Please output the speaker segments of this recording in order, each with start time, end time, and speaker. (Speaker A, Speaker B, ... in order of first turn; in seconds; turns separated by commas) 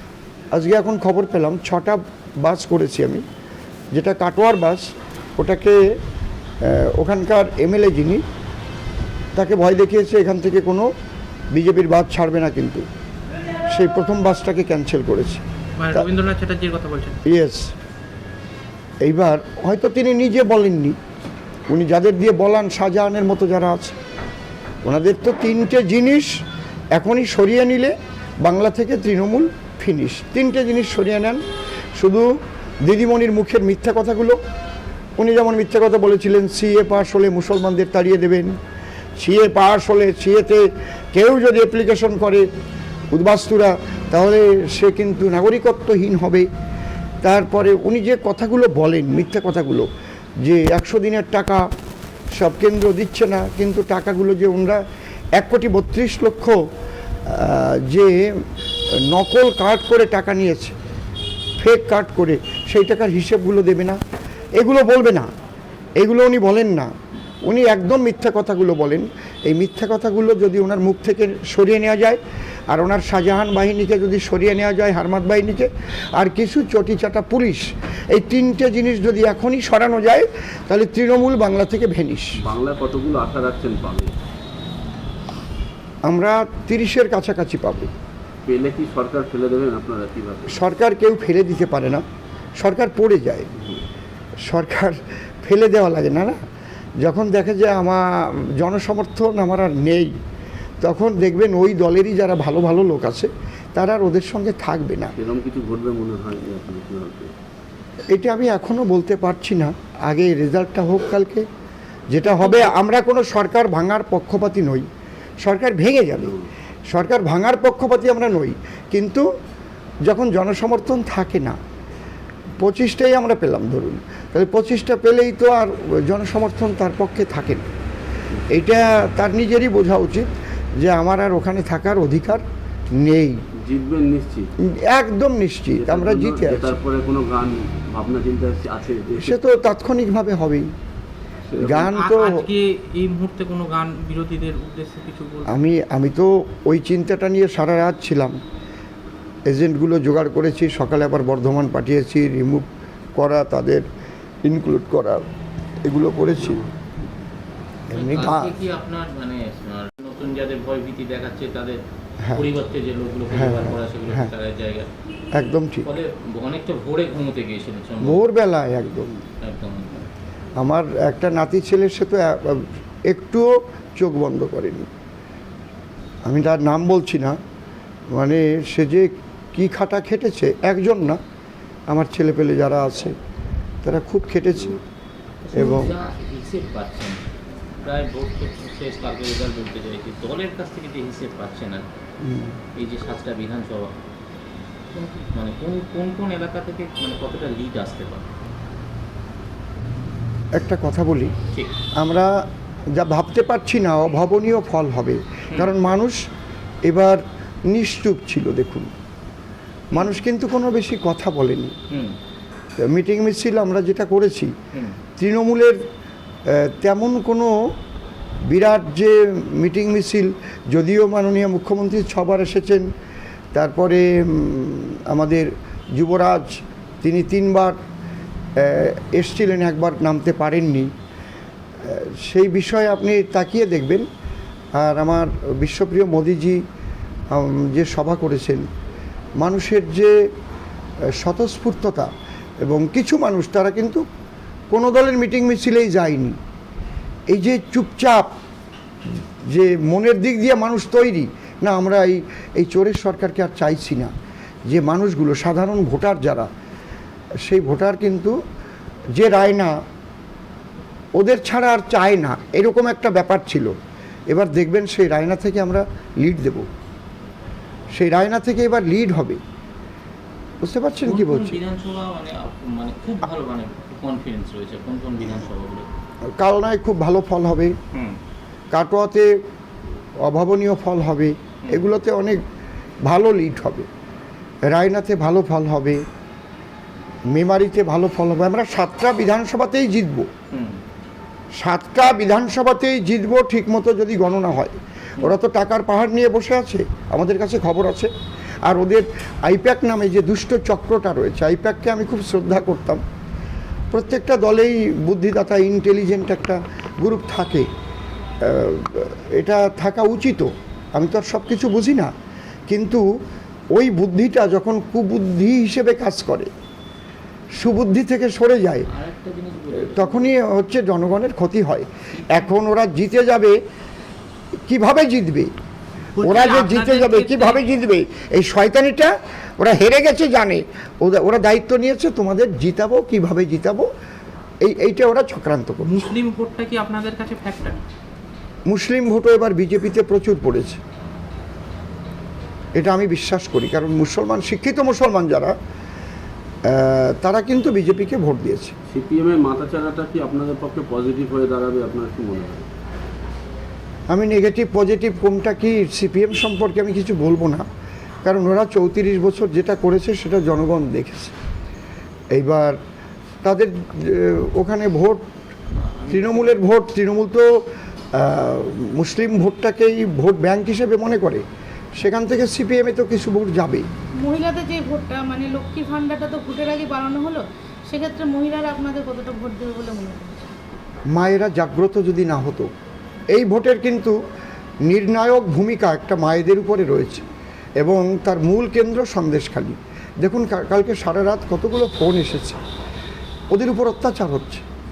Speaker A: 0.5-3.2, Speaker A: 3.9-4.8, Speaker A: 5.4-5.8, Speaker A: 6.7-8.2, Speaker A: 9.4-10.9, Speaker A: 11.5-12.8, Speaker A: 13.7-16.1, Speaker B: 15.8-17.2, Speaker A: 17.3-17.7, Speaker A: 19.0-21.0, Speaker A: 21.7-24.0, Speaker A: 24.9-26.3, Speaker A: 26.9-31.4, Speaker A: 32.0-32.3, Speaker A: 32.8-34.4, Speaker A: 35.2-38.5, Speaker A: 39.2-42.5, Speaker A: 43.1-46.5, Speaker A: 47.2-49.9, Speaker A: 50.4-51.6, Speaker A: 52.4-54.8, Speaker A: 55.4-56.6, Speaker A: 57.3-58.3, Speaker A: 59.1-60.8, Speaker A: 61.6-64.0, Speaker A: 64.6-65.3, Speaker A: 66.0-66.9, Speaker A: 67.5-82.3, Speaker C: 82.4-84.1, Speaker A: 86.1-87.9, Speaker C: 88.5-90.6, Speaker A: 90.5-92.0, Speaker A: 92.6-93.5, Speaker A: 94.5-96.4, Speaker A: 97.0-100.1, Speaker A: 100.8-105.1, Speaker C: 105.1-107.3, Speaker A: 108.1-111.4, Speaker A: 112.1-114.9, Speaker A: 115.4-116.3, Speaker A: 116.9-119.3, Speaker A: 120.1-121.6, Speaker A: 122.6-127.7, Speaker A: 128.5-132.4, Speaker A: 133.0-133.4, Speaker C: 133.7-134.5, Speaker A: 134.8-136.8, Speaker C: 135.8-139.4, Speaker A: 139.2-140.7, Speaker C: 141.5-142.0, Speaker A: 141.6-142.5, Speaker B: 142.0-145.5, Speaker A: 145.5-148.4, Speaker A: 149.5-152.7, Speaker A: 153.2-153.8, Speaker A: 154.5-155.2, Speaker A: 155.8-156.6, Speaker A: 157.9-158.5, Speaker D: 157.9-161.8, Speaker D: 162.3-164.9, Speaker A: 163.3-164.3, Speaker A: 165.3-165.9, Speaker D: 165.8-168.2, Speaker A: 168.0-169.2, Speaker D: 169.4-170.1, Speaker A: 170.6-174.9, Speaker A: 176.3-177.4, Speaker A: 178.1-181.2, Speaker A: 181.9-183.2, Speaker A: 183.8-184.8, Speaker D: 185.4-187.3, Speaker A: 185.6-186.0, Speaker D: 187.8-191.9, Speaker A: 192.2-192.6, Speaker D: 192.8-193.9, Speaker D: 195.0-198.3, Speaker A: 200.6-201.3, Speaker A: 202.0-202.3, Speaker A: 203.0-206.2, Speaker A: 206.9-208.9, Speaker A: 209.9-211.8, Speaker A: 212.8-214.5, Speaker A: 215.2-215.8, Speaker A: 216.5-217.5, Speaker A: 218.5-222.9, Speaker A: 223.5-227.8, Speaker A: 228.6-230.9, Speaker A: 231.8-234.1, Speaker A: 234.8-236.6, Speaker A: 237.3-238.7, Speaker A: 239.4-240.1, Speaker A: 241.2-242.1, Speaker A: 242.7-244.0, Speaker A: 244.7-246.3, Speaker A: 247.3-248.3, Speaker A: 249.2-254.1, Speaker A: 254.7-256.5, Speaker A: 257.5-258.4, Speaker A: 259.2-259.8, Speaker A: 261.2-263.7, Speaker A: 264.3-266.7, Speaker A: 267.9-269.4, Speaker A: 270.6-271.6, Speaker D: 271.0-275.9, Speaker A: 276.4-277.7, Speaker A: 278.7-279.3, Speaker A: 280.2-282.4, Speaker A: 283.1-283.9, Speaker A: 284.7-286.0, Speaker A: 287.3-290.3, Speaker D: 290.5-290.8, Speaker A: 291.6-298.1, Speaker A: 298.7-303.0, Speaker A: 303.9-307.7, Speaker A: 308.4-312.1, Speaker A: 312.7-313.1, Speaker A: 313.8-316.5, Speaker A: 317.6-318.9, Speaker D: 318.9-320.3, Speaker A: 319.8-323.6, Speaker D: 322.1-322.5, Speaker A: 324.7-325.5, Speaker B: 326.2-327.6, Speaker A: 326.2-333.9, Speaker A: 334.6-336.0, Speaker B: 335.8-337.8, Speaker A: 338.7-340.8, Speaker A: 342.8-345.5, Speaker A: 346.7-348.7, Speaker C: 348.9-352.6, Speaker A: 354.1-357.6, Speaker A: 358.2-361.4, Speaker A: 362.3-362.8, Speaker A: 363.4-365.2, Speaker D: 365.9-366.6, Speaker A: 366.1-367.5, Speaker A: 368.1-371.4, Speaker A: 372.0-373.9, Speaker E: 374.2-380.5, Speaker A: 381.1-382.7, Speaker A: 383.3-384.2, Speaker A: 384.9-387.2, Speaker A: 387.8-392.6, Speaker A: 393.5-394.6